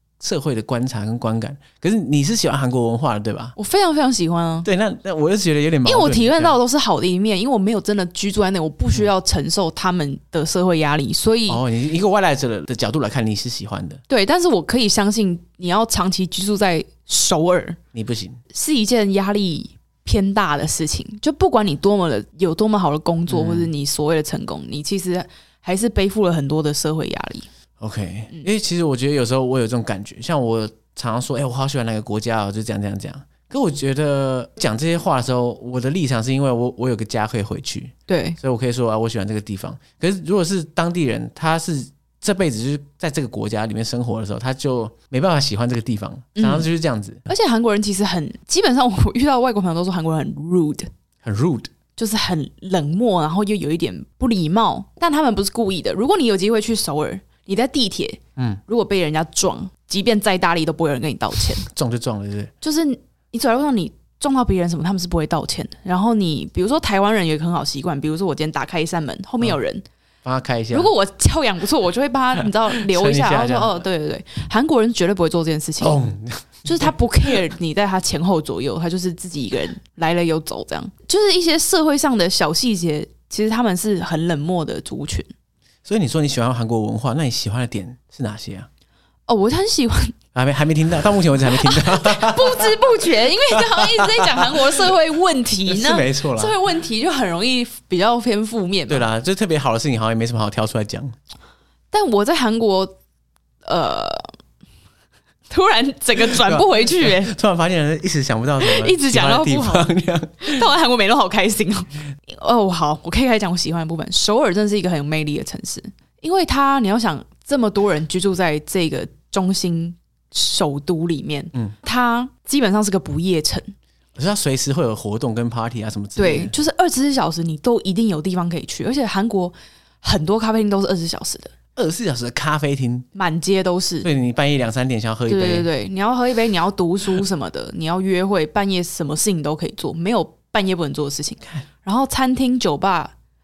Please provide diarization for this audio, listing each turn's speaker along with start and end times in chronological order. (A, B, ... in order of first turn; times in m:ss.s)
0:00.2-0:03.6 A
0:03.6-0:04.7 B
0:04.6-0:06.6 A
0:05.8-0:11.6 B
0:11.5-0:14.0 A
0:14.1-0:17.8 B
0:17.9-0:18.4 A
0:18.5-0:27.5 B
0:23.3-0:23.7 A
0:27.8-0:47.3 A
0:38.1-0:38.4 B
0:46.4-0:46.7 B
0:47.3-0:50.9 B
0:51.2-0:51.7 A
0:52.0-1:01.6 B
1:01.7-1:02.5 A
1:02.6-1:09.8 B
1:10.2-1:10.9 A
1:10.7-1:16.0 B
1:12.7-1:13.8 A
1:15.8-1:16.9 A
1:16.6-1:25.3 B
1:25.9-1:28.7 A
1:29.3-1:30.2 B
1:30.3-1:34.7 A
1:31.5-1:39.1 B
1:35.7-1:36.6 A
1:38.9-1:41.2 A
1:41.9-1:43.0 B
1:43.6-1:44.3 B
1:45.5-1:47.3 B
1:46.4-1:50.6 A
1:48.6-2:03.7 B
2:04.2-2:06.5 A
2:06.2-2:11.5 B
2:11.8-2:13.1 A
2:13.2-2:14.1 B
2:14.0-2:15.7 A
2:15.3-2:23.1 B